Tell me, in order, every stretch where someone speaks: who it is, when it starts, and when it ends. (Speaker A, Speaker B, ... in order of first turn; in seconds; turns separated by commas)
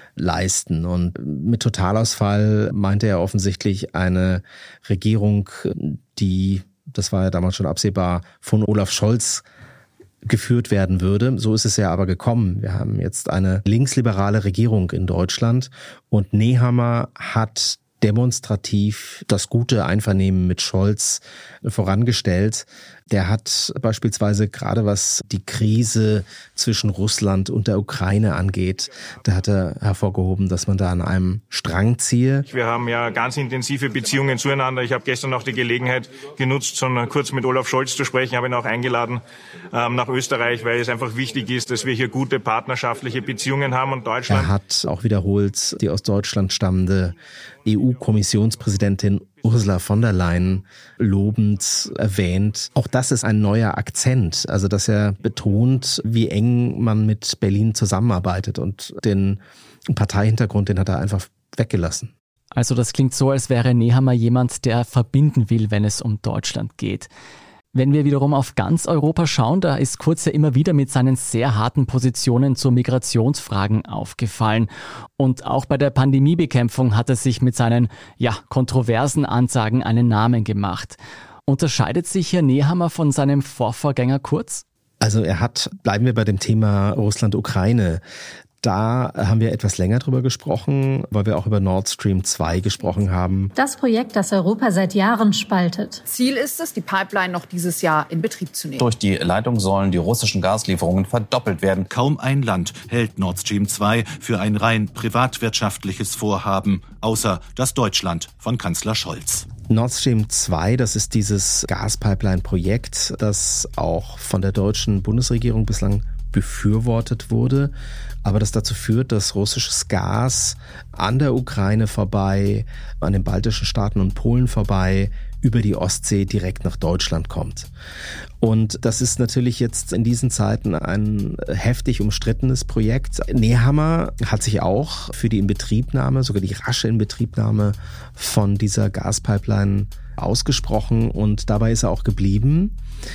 Speaker A: 0.2-9.4, Speaker A: 10.2-32.5, Speaker B: 32.5-44.5, Speaker A: 44.3-62.1, Speaker C: 62.5-67.1, Speaker C: 67.7-84.6, Speaker A: 85.0-88.0, Speaker A: 88.6-93.5, Speaker D: 93.5-96.0, Speaker E: 96.1-98.8, Speaker F: 98.7-101.9, Speaker G: 101.9-109.5, Speaker A: 109.7-117.7, Speaker A: 118.2-127.7, Speaker A: 128.4-142.8